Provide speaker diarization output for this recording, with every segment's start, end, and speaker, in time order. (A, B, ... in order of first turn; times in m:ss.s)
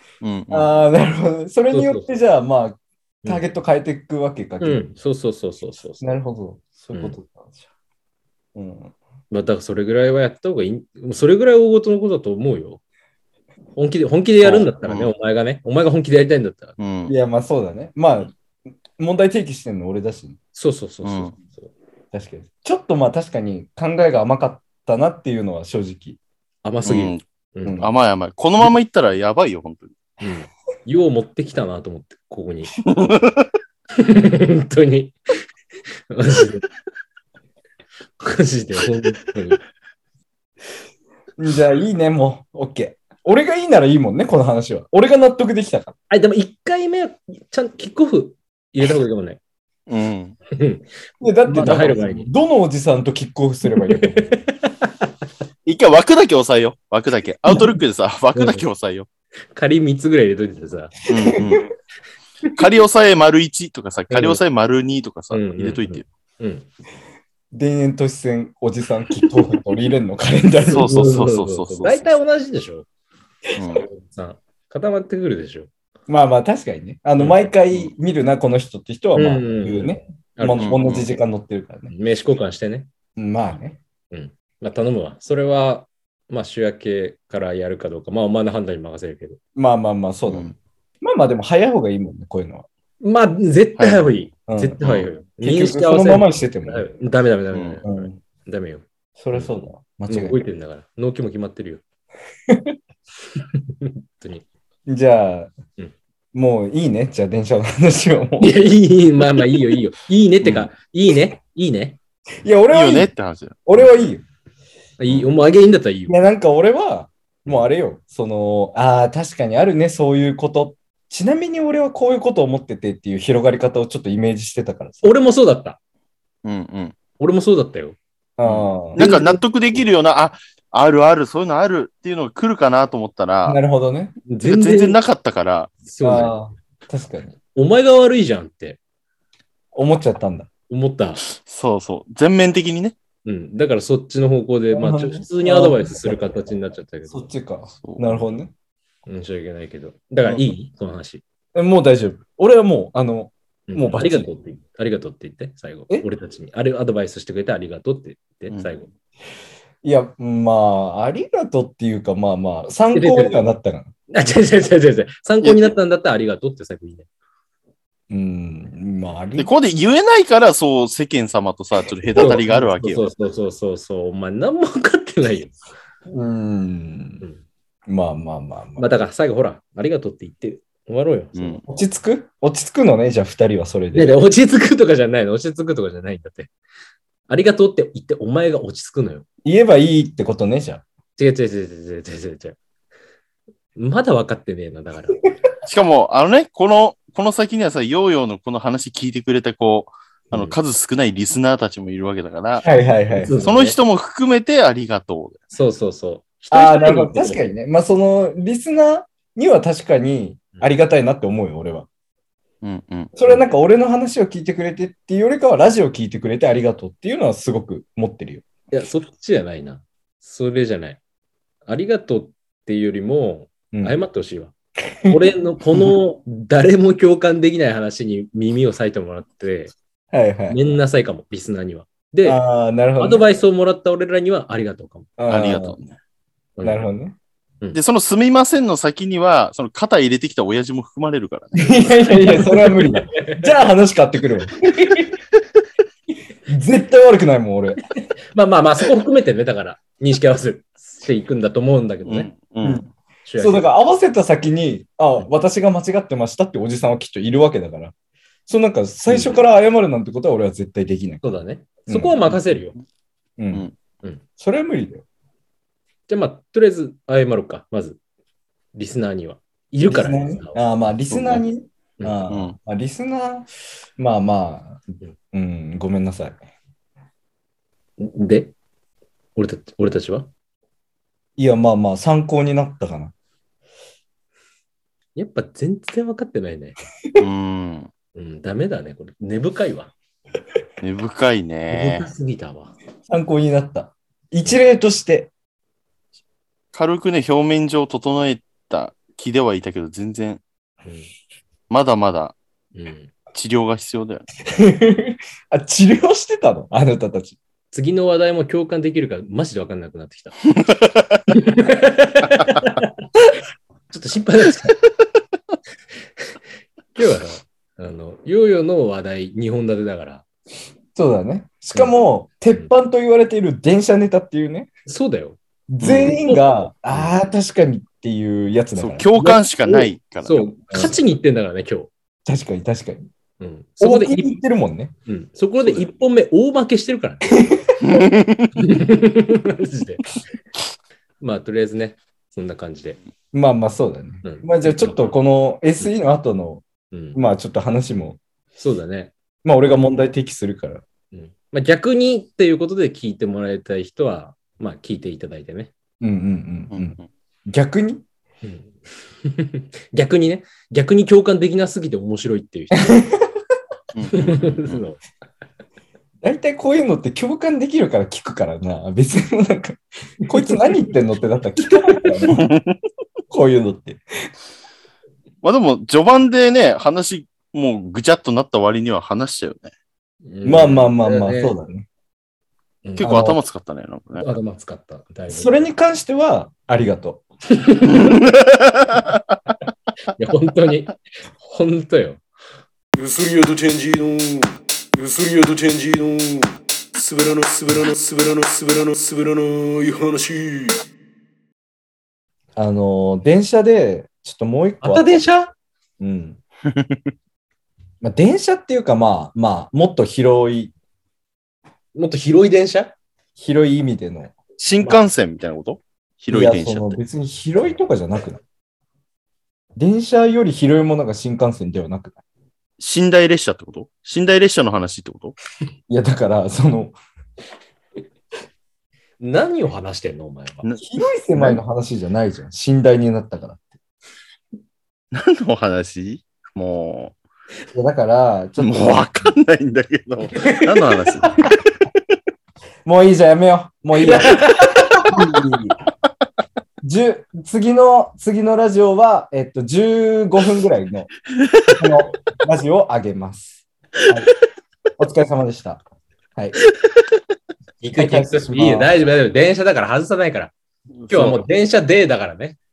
0:00.2-0:00.7 A
0:00.5-0:04.8 B
0:01.7-0:02.1 C
0:04.6-0:06.2 C
0:06.0-0:07.6 B
0:08.5-0:08.9 B
0:09.3-0:12.8 C
0:13.8-0:16.7 C
0:14.4-0:15.1 A
0:16.8-0:17.1 A
0:17.1-0:18.3 B
0:19.0-0:20.4 B
0:20.5-0:21.7 C
0:21.0-0:21.3 A
0:22.1-0:26.2 B
0:26.6-0:27.8 C
0:26.8-0:30.0 A
0:30.2-0:32.7 C
0:32.8-0:33.5 A
0:34.0-0:35.2 C
0:36.1-0:36.6 C
0:38.2-0:39.6 C
0:41.4-0:45.9 B
0:46.1-0:49.4 C
0:49.9-0:50.4 A
0:50.5-0:50.8 C
0:51.2-0:54.3 B
0:51.4-0:52.3 C
0:53.9-0:54.9 C
0:55.6-0:59.1 A
0:58.3-0:58.6 C
0:59.5-1:01.0 C
1:01.1-1:01.7 A
1:01.1-1:01.6 B
1:02.5-1:06.0 A
1:04.1-1:04.4 C
1:05.3-1:06.7 C
1:07.5-1:11.1 B
1:10.7-1:12.1 A
1:10.7-1:12.8 C
1:13.5-1:13.8 A
1:13.7-1:15.7 C
1:16.1-1:21.9 B
1:17.2-1:17.5 C
1:19.2-1:20.8 C
1:20.6-1:21.1 A
1:21.9-1:22.9 C
1:23.2-1:23.8 B
1:24.1-1:29.4 C
1:29.6-1:30.5 B
1:30.3-1:30.5 A
1:31.0-1:32.6 B
1:33.0-1:39.5 C
1:33.8-1:34.1 A
1:34.5-1:34.8 B
1:34.8-1:35.1 A
1:35.4-1:36.9 B
1:37.5-1:37.8 A
1:37.8-1:38.2 B
1:39.2-1:40.4 B
1:40.1-1:41.8 C
1:42.5-1:42.8 B
1:43.4-1:44.4 C
1:44.9-1:45.5 B
1:46.3-1:48.6 B
1:48.4-1:52.0 C
1:52.4-1:53.1 B
1:52.7-1:53.6 A
1:53.6-1:54.2 B
1:55.0-1:56.2 C
1:56.1-2:05.1 B
2:05.0-2:05.8 C
2:06.4-2:07.0 A
2:07.2-2:09.4 C
2:08.4-2:09.1 B
2:08.9-2:13.6 A
2:13.4-2:14.2 B
2:14.3-2:15.0 C
2:14.4-2:15.8 A
2:15.9-2:16.3 C
2:16.0-2:17.3 B
2:17.5-2:18.8 C
2:19.7-2:20.5 B
2:20.7-2:21.2 C
2:21.3-2:22.9 A
2:23.2-2:27.3 C
2:24.7-2:26.3 B
2:27.1-2:28.5 B
2:27.8-2:28.2 A
2:29.1-2:31.2 C
2:31.5-2:34.3 B
2:33.7-2:38.9 C
2:39.8-2:43.9 B
2:42.9-2:43.4 C
2:44.1-2:47.1 C
2:45.4-2:45.7 A
2:48.1-2:49.5 B
2:49.4-2:53.0 A
2:52.2-2:52.4 B
2:52.2-2:55.6 C
2:56.1-2:57.2 B
2:57.9-2:58.8 B
2:58.8-3:01.6 C
3:01.3-3:01.6 A
3:01.7-3:04.1 B
3:03.9-3:06.5 C
3:07.3-3:09.2 C
3:09.4-3:10.8 B
3:11.2-3:12.6 C
3:13.8-3:15.3 C
3:15.6-3:22.7 A
3:22.6-3:23.4 B
3:23.2-3:23.8 C
3:23.3-3:25.4 A
3:25.5-3:27.4 C
3:26.5-3:31.9 B
3:32.6-3:33.1 A
3:33.2-3:38.4 B
3:38.7-3:41.0 C
3:41.6-3:44.5 C
3:43.7-3:44.0 B
3:45.1-3:49.7 C
3:50.1-3:50.6 B
3:50.5-3:52.4 C
3:52.2-3:53.2 B
3:53.0-3:55.1 C
3:55.2-3:55.8 B
3:55.3-3:56.0 A
3:56.6-3:56.8 C
3:56.6-3:57.2 B
3:57.7-4:02.0 A
4:01.6-4:05.0 B
4:02.3-4:03.5 C
4:06.5-4:07.8 B
4:08.3-4:12.3 C
4:12.0-4:12.8 A
4:12.6-4:17.9 B
4:13.2-4:13.7 C
4:18.5-4:21.2 B
4:21.2-4:22.7 C
4:21.9-4:22.2 B
4:23.4-4:23.6 B
4:24.4-4:25.0 B
4:26.1-4:28.0 C
4:28.7-4:30.6 C
4:29.8-4:36.4 B
4:31.1-4:31.4 A
4:32.2-4:32.6 A
4:38.0-4:38.5 C
4:39.4-4:40.3 C
4:41.4-4:43.1 B
4:45.1-4:46.8 C
4:47.2-4:47.9 A
4:48.1-4:49.9 C
4:50.8-4:52.1 A
4:51.7-4:52.7 C
4:53.1-4:55.3 B
4:56.7-5:00.4 A
5:01.7-5:02.4 A
5:02.7-5:03.1 C
5:03.3-5:04.3 A
5:04.5-5:07.4 B
5:07.7-5:10.4 C
5:10.6-5:11.2 A
5:11.3-5:13.0 C
5:13.9-5:14.8 C
5:16.9-5:20.2 C
5:20.9-5:24.7 B
5:24.8-5:25.4 C
5:25.7-5:29.1 B
5:25.8-5:26.2 A
5:26.0-5:27.1 C
5:28.8-5:30.5 A
5:30.2-5:31.9 C
5:32.2-5:33.1 B
5:33.4-5:34.4 C
5:33.8-5:34.9 B
5:35.1-5:37.3 C
5:37.4-5:37.7 B
5:37.8-5:38.5 A
5:38.6-5:40.0 C
5:41.2-5:43.0 C
5:43.3-5:48.2 B
5:44.2-5:45.2 C
5:46.9-5:47.2 C
5:48.6-5:49.1 C
5:49.4-5:50.8 B
5:51.1-5:55.7 C
5:56.0-5:58.0 B
5:56.7-5:57.0 A
5:58.4-6:03.0 C
6:02.9-6:03.3 B
6:03.9-6:04.8 A
6:04.1-6:05.0 C
6:06.2-6:12.4 B
6:11.7-6:12.1 C
6:12.3-6:12.8 A
6:13.3-6:14.0 B
6:15.4-6:19.7 A
6:20.2-6:21.5 C
6:20.4-6:21.9 B
6:22.8-6:23.2 C
6:23.0-6:24.3 A
6:23.0-6:23.4 B
6:24.2-6:25.7 C
6:25.3-6:27.2 B
6:27.6-6:28.1 C
6:27.8-6:29.2 A
6:30.2-6:32.2 C
6:33.0-6:40.8 D
6:42.6-6:45.2 B
6:44.8-6:45.5 C
6:46.0-6:46.4 B
6:46.7-6:47.1 A
6:48.0-6:50.7 B
6:51.9-6:52.9 C
6:53.4-6:54.4 B
6:54.6-6:57.0 A
6:56.3-6:58.4 B
6:59.8-7:02.2 B
7:02.8-7:05.4 A
7:05.9-7:07.0 B
7:09.2-7:10.7 C
7:10.8-7:13.6 B
7:15.1-7:17.1 A
7:17.7-7:19.0 B
7:18.6-7:21.4 A
7:22.8-7:24.4 B
7:24.0-7:25.1 C
7:25.0-7:25.8 B
7:26.8-7:31.1 B
7:31.4-7:31.7 A
7:31.7-7:34.3 B
7:35.0-7:35.8 B
7:37.8-7:40.5 C
7:37.9-7:38.9 B
7:41.0-7:41.4 A
7:41.1-7:42.6 C